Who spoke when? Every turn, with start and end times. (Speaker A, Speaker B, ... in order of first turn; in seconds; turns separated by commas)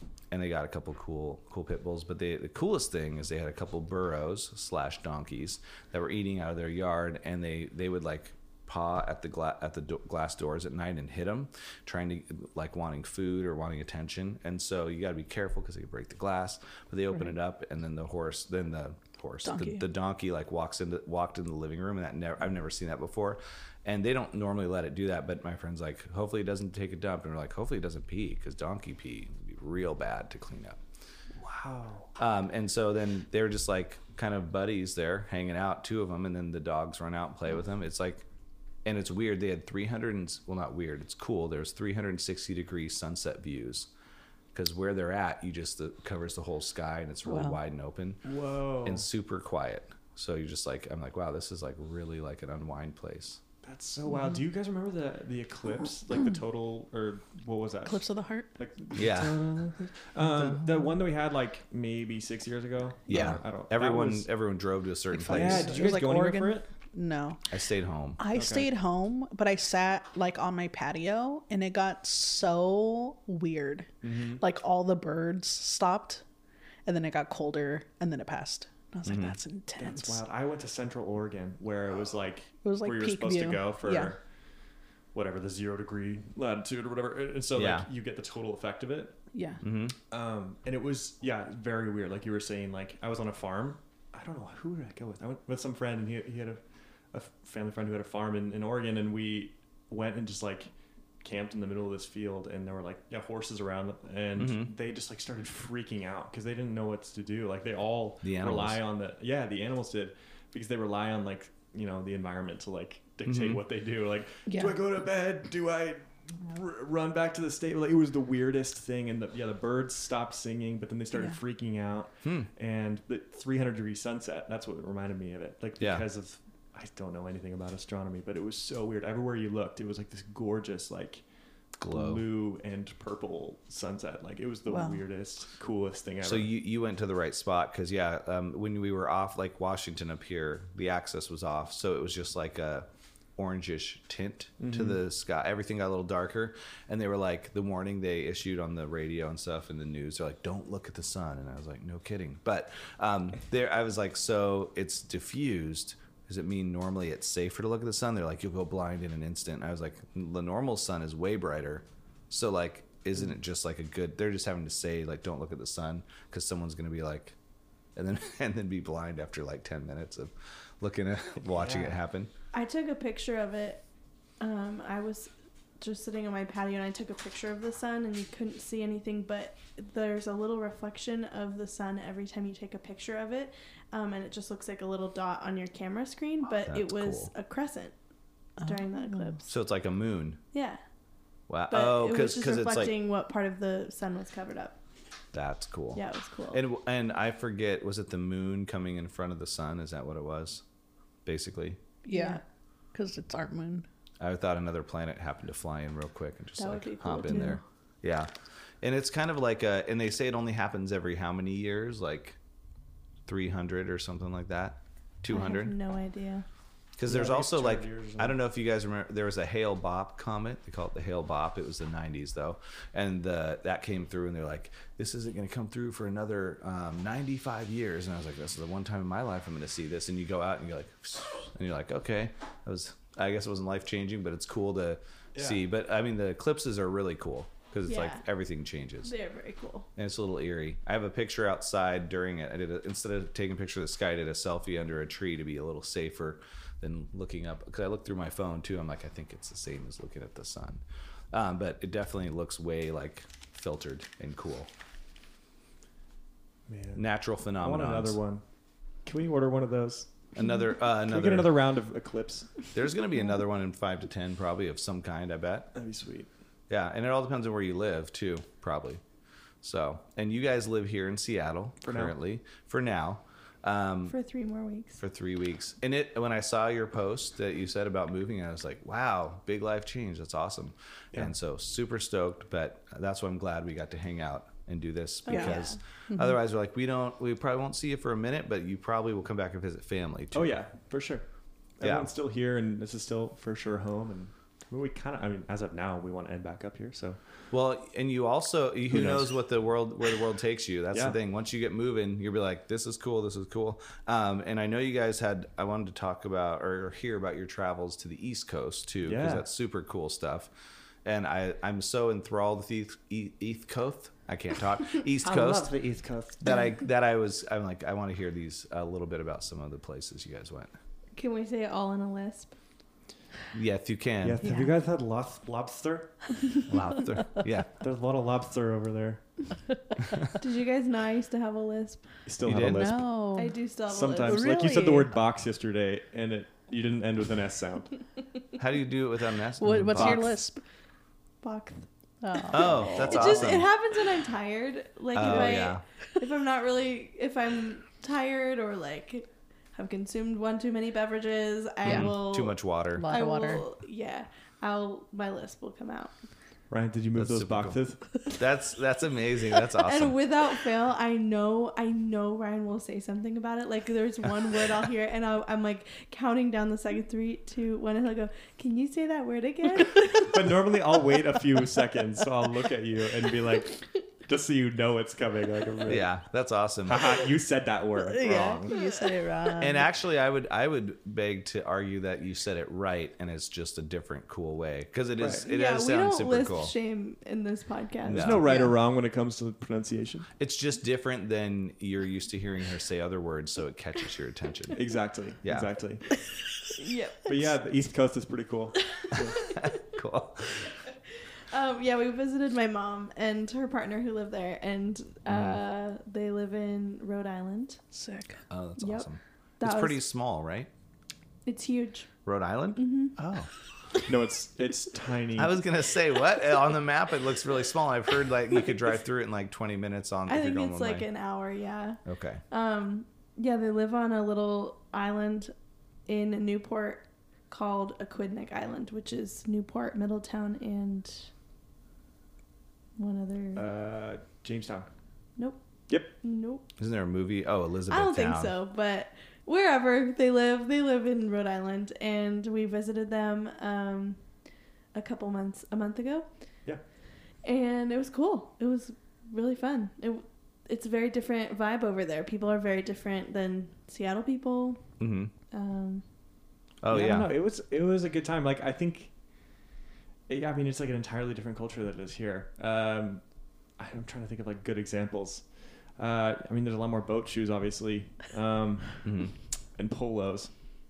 Speaker A: 0.3-30.8, Speaker B: 19.4-19.8, Speaker C: 31.3-32.1, Speaker A: 32.2-38.2, Speaker A: 38.8-43.9, Speaker A: 44.5-48.2, Speaker B: 47.2-47.6, Speaker C: 48.2-49.0, Speaker A: 48.8-53.4, Speaker C: 53.6-58.0, Speaker B: 57.9-58.5, Speaker C: 58.5-64.3, Speaker A: 58.9-59.5, Speaker A: 63.1-65.8, Speaker B: 65.1-67.4, Speaker C: 65.3-66.7, Speaker A: 67.5-68.2, Speaker B: 68.2-76.2, Speaker C: 68.3-68.7, Speaker C: 74.0-74.4, Speaker B: 76.8-80.2, Speaker A: 79.0-79.3, Speaker C: 79.8-84.2, Speaker B: 82.6-84.1, Speaker C: 85.1-89.2, Speaker A: 87.5-87.9, Speaker B: 89.3-89.6, Speaker A: 89.6-89.9, Speaker C: 90.1-131.2, Speaker A: 104.3-104.7, Speaker A: 108.2-108.8, Speaker A: 113.2-113.6, Speaker B: 114.5-114.8, Speaker A: 122.2-122.5, Speaker A: 125.8-126.0, Speaker A: 131.8-132.2, Speaker C: 131.9-136.5, Speaker B: 134.7-135.0, Speaker A: 136.2-167.3, Speaker C: 144.6-145.0, Speaker A: 167.9-172.3, Speaker C: 171.5-171.9, Speaker D: 172.5-173.8, Speaker D: 174.4-187.9, Speaker A: 186.7-187.3, Speaker B: 188.6-189.4, Speaker D: 188.6-189.5, Speaker A: 189.5-190.4, Speaker D: 190.5-190.8, Speaker A: 191.5-192.9, Speaker D: 191.7-194.8, Speaker A: 195.3-200.6, Speaker D: 195.9-196.6, Speaker A: 201.2-201.8, Speaker B: 202.0-202.4, Speaker D: 202.1-202.4, Speaker B: 202.9-203.8, Speaker A: 204.2-208.3, Speaker D: 206.6-207.6, Speaker A: 208.8-212.4, Speaker A: 213.2-215.7, Speaker D: 215.3-216.4, Speaker A: 217.0-239.1, Speaker C: 217.1-218.3, Speaker C: 235.3-235.6, Speaker D: 237.9-238.2, Speaker D: 239.0-239.9, Speaker A: 240.0-254.7, Speaker C: 256.7-257.0, Speaker A: 256.9-258.2, Speaker C: 257.6-258.4, Speaker C: 259.0-260.1, Speaker A: 260.4-261.5, Speaker C: 261.0-262.7, Speaker A: 262.7-265.7, Speaker C: 265.7-266.3, Speaker A: 266.7-269.0, Speaker A: 269.6-274.1, Speaker C: 271.8-272.1, Speaker D: 274.1-275.0, Speaker A: 275.0-290.6, Speaker D: 285.2-285.8, Speaker B: 285.3-286.4, Speaker C: 290.3-291.2, Speaker C: 291.8-297.2, Speaker A: 291.8-292.1, Speaker A: 297.5-310.5, Speaker C: 298.9-299.4, Speaker C: 309.1-309.4, Speaker A: 311.0-315.7, Speaker C: 315.2-316.5, Speaker A: 316.4-320.7, Speaker D: 321.1-322.6, Speaker A: 323.5-324.4, Speaker C: 324.2-326.6, Speaker B: 324.4-324.7, Speaker A: 326.7-327.7, Speaker C: 327.8-329.4, Speaker D: 330.4-332.2, Speaker C: 332.2-333.1, Speaker A: 332.4-333.0, Speaker B: 332.6-333.6, Speaker D: 333.3-334.5, Speaker C: 333.9-338.0, Speaker B: 334.2-335.1, Speaker A: 338.6-340.4, Speaker B: 339.6-340.6, Speaker C: 339.9-340.3, Speaker D: 341.4-352.6, Speaker B: 342.2-343.2, Speaker A: 342.5-343.7, Speaker A: 345.1-345.8, Speaker A: 351.8-353.1, Speaker B: 352.9-353.6, Speaker D: 353.1-356.1, Speaker C: 356.7-358.0, Speaker A: 357.1-360.2, Speaker D: 359.6-370.6, Speaker C: 370.2-376.1, Speaker A: 375.9-377.2, Speaker C: 376.9-378.7, Speaker B: 378.0-379.9, Speaker D: 378.7-379.0, Speaker A: 379.6-386.7, Speaker C: 385.2-385.4, Speaker D: 385.4-388.4, Speaker C: 388.0-390.3, Speaker A: 388.1-388.4, Speaker B: 388.4-388.7, Speaker A: 390.4-394.8, Speaker C: 394.7-396.1, Speaker A: 395.4-395.7, Speaker D: 396.8-397.3, Speaker C: 397.2-399.4, Speaker D: 399.0-399.8, Speaker A: 399.5-400.7, Speaker D: 401.5-407.8, Speaker A: 405.3-405.6, Speaker B: 407.9-408.4, Speaker A: 408.5-410.7, Speaker D: 408.8-409.1, Speaker D: 409.6-410.0, Speaker D: 411.4-412.1, Speaker A: 412.2-413.5, Speaker D: 412.8-413.2, Speaker C: 414.0-415.6, Speaker A: 415.4-421.1, Speaker D: 420.3-425.5, Speaker A: 422.1-422.4, Speaker D: 426.1-431.3, Speaker D: 433.0-433.6, Speaker C: 433.6-434.9, Speaker D: 435.4-436.6, Speaker A: 436.8-438.5, Speaker D: 437.9-444.2, Speaker D: 444.9-446.3, Speaker D: 447.4-454.9, Speaker A: 455.0-455.3, Speaker D: 455.5-456.0, Speaker A: 456.8-457.3, Speaker C: 456.9-459.1, Speaker C: 460.3-463.2, Speaker C: 463.8-469.1, Speaker A: 469.0-469.3, Speaker C: 469.7-470.5